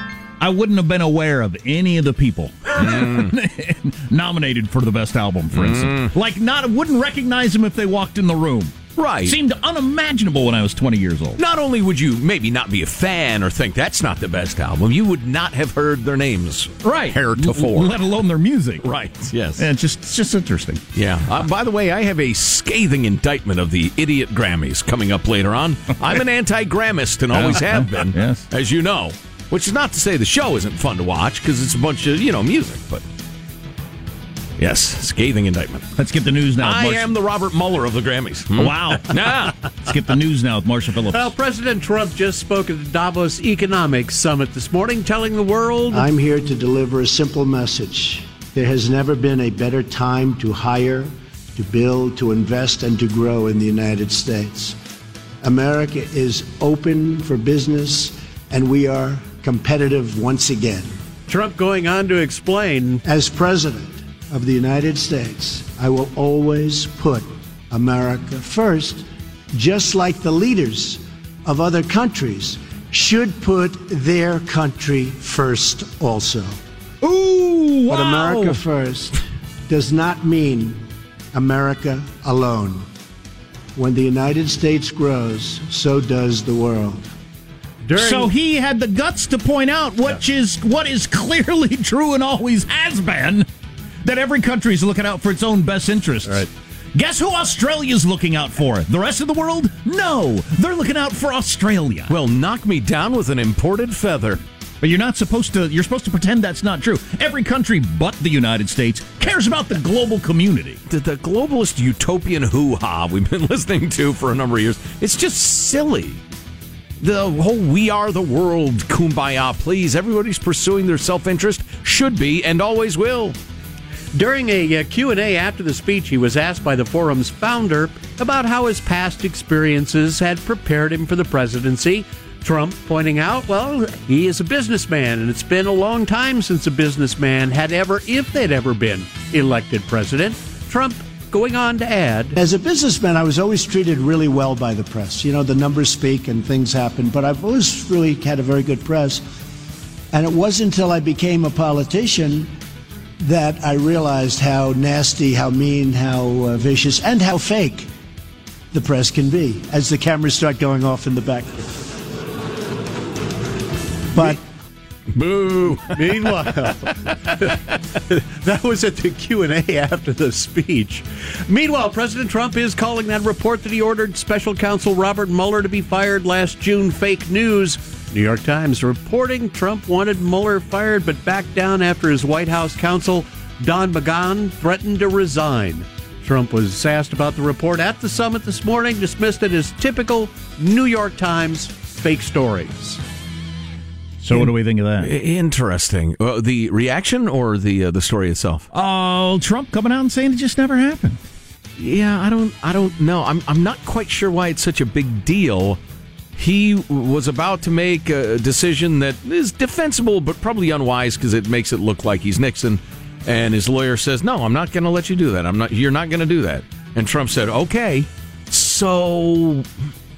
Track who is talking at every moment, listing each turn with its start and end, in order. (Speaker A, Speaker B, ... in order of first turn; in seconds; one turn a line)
Speaker A: 0.4-11.4
Speaker B: 2.8-3.3
Speaker B: 5.5-6.1
Speaker B: 9.0-9.4
Speaker B: 11.4-17.9
Speaker A: 16.8-18.8
Speaker B: 18.8-19.7
Speaker A: 19.6-20.8
Speaker B: 20.9-33.0
Speaker A: 27.3-28.5
Speaker B: 34.6-35.9
Speaker A: 36.0-37.1
Speaker B: 36.6-39.6
Speaker A: 38.5-39.2
Speaker A: 39.8-41.3
Speaker C: 41.1-46.1
Speaker D: 45.9-54.8
Speaker D: 55.4-60.9
Speaker C: 61.3-63.0
Speaker D: 63.0-76.6
Speaker A: 77.0-78.6
Speaker D: 77.9-82.9
Speaker D: 83.8-87.1
Speaker C: 87.8-88.3
Speaker A: 87.9-93.5
Speaker A: 94.0-102.1
Speaker B: 102.1-104.4
Speaker A: 104.8-110.8
Speaker B: 110.9-116.2
Speaker B: 117.0-123.4
Speaker C: 124.1-142.3
Speaker D: 142.3-149.2
Speaker D: 150.1-152.5
Speaker D: 153.2-157.9
Speaker D: 158.7-161.7
Speaker B: 165.1-166.2
Speaker C: 165.9-193.0
Speaker A: 194.2-195.1
Speaker B: 194.3-198.7
Speaker A: 198.7-201.2
Speaker B: 201.8-205.8
Speaker B: 206.3-219.7